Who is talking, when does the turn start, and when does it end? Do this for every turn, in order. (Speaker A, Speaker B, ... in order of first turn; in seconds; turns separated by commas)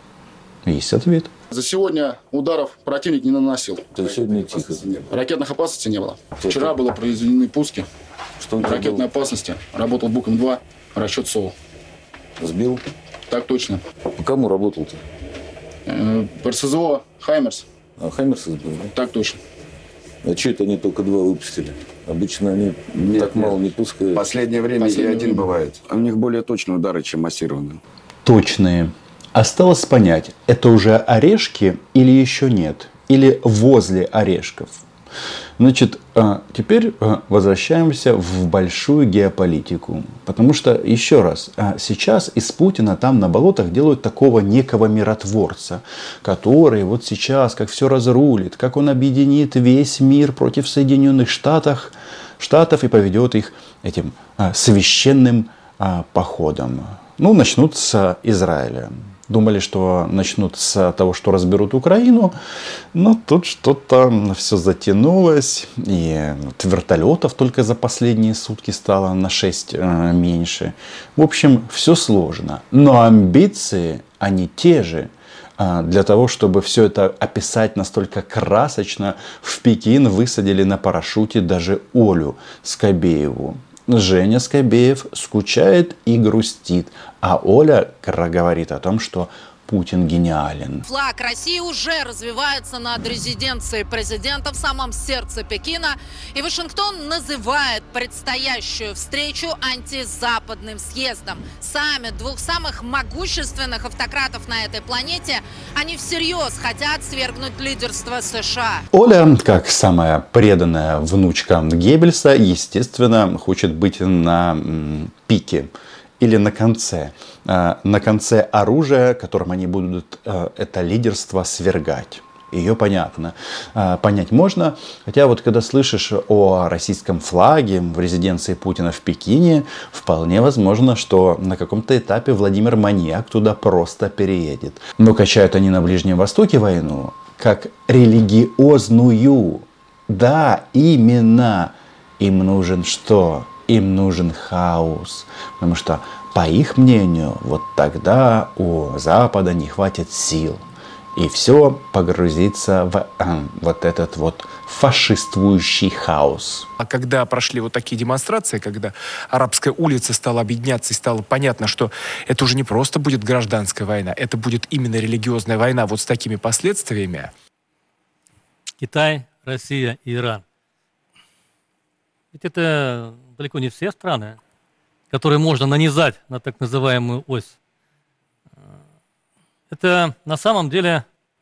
Speaker A: 0.7-1.3, Speaker B: 1.5-4.0, Speaker C: 3.9-5.0, Speaker B: 5.0-7.9, Speaker C: 6.4-6.7, Speaker C: 8.4-9.1, Speaker B: 8.6-11.6, Speaker C: 12.4-12.8, Speaker B: 13.3-13.8, Speaker C: 14.2-15.0, Speaker B: 15.9-17.7, Speaker C: 18.0-18.9, Speaker B: 18.9-19.4, Speaker C: 20.2-24.2, Speaker D: 22.9-27.8, Speaker B: 24.8-25.4, Speaker A: 28.2-34.8, Speaker A: 35.6-62.4, Speaker A: 62.9-90.8, Speaker E: 90.9-108.8, Speaker A: 108.9-156.7, Speaker F: 156.8-167.3, Speaker G: 168.8-170.4, Speaker G: 172.3-174.4, Speaker G: 175.1-177.6, Speaker G: 179.7-181.1